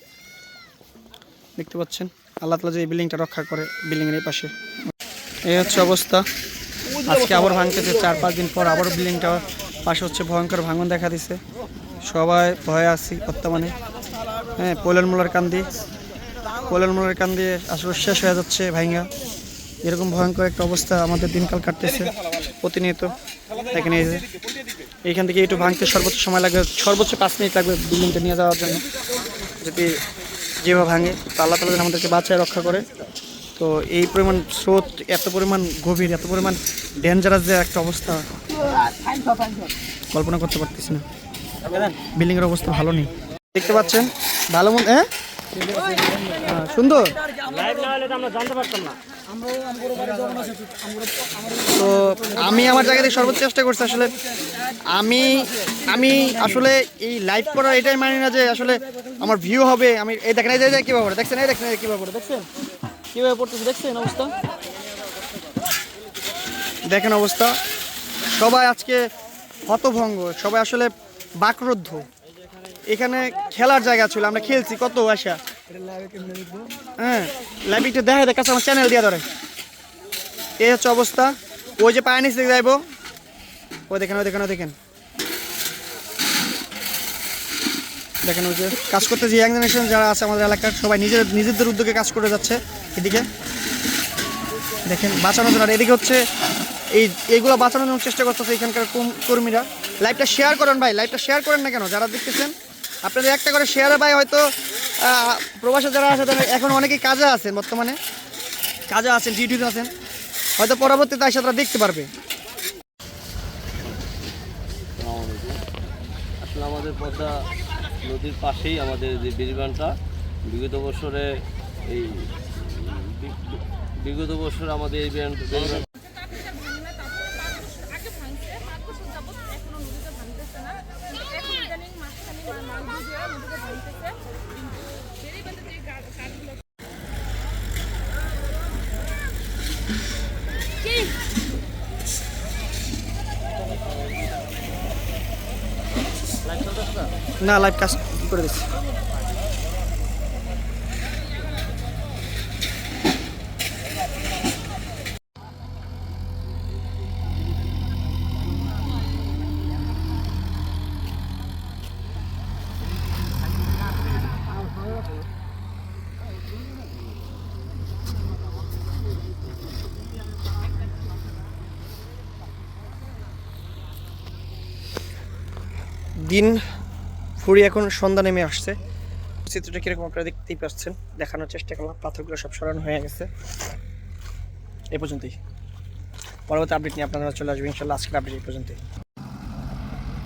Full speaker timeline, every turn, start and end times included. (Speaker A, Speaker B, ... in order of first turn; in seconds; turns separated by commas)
Speaker A: 1.6-4.5, Speaker A: 5.5-6.2, Speaker A: 7.0-11.4, Speaker A: 12.0-13.7, Speaker A: 14.6-15.7, Speaker A: 16.7-19.1, Speaker A: 19.8-22.1, Speaker A: 22.6-23.1, Speaker A: 23.7-24.2, Speaker A: 25.1-28.8, Speaker A: 29.6-29.9, Speaker A: 30.6-32.8, Speaker A: 33.6-38.2, Speaker A: 40.1-41.0, Speaker B: 41.7-41.9, Speaker A: 42.1-45.1, Speaker A: 46.4-47.1, Speaker B: 47.4-49.0, Speaker A: 51.7-54.1, Speaker A: 54.9-62.5, Speaker A: 63.1-64.3, Speaker A: 66.9-67.6, Speaker A: 68.3-69.1, Speaker A: 69.7-72.0, Speaker A: 72.9-75.4, Speaker A: 77.0-79.2, Speaker A: 80.6-82.8, Speaker A: 83.9-84.7, Speaker A: 88.2-93.3, Speaker A: 94.8-96.2, Speaker A: 96.9-102.5, Speaker A: 103.0-104.5, Speaker A: 105.0-108.0, Speaker A: 108.9-109.9, Speaker A: 110.6-112.1, Speaker C: 115.0-115.6, Speaker C: 116.4-117.3, Speaker C: 118.0-119.9, Speaker C: 120.5-121.3, Speaker C: 121.8-125.8, Speaker B: 146.4-147.1, Speaker A: 147.4-148.7, Speaker A: 176.2-176.6, Speaker A: 177.4-178.8, Speaker A: 179.5-183.3, Speaker A: 184.9-185.4, Speaker A: 186.5-188.8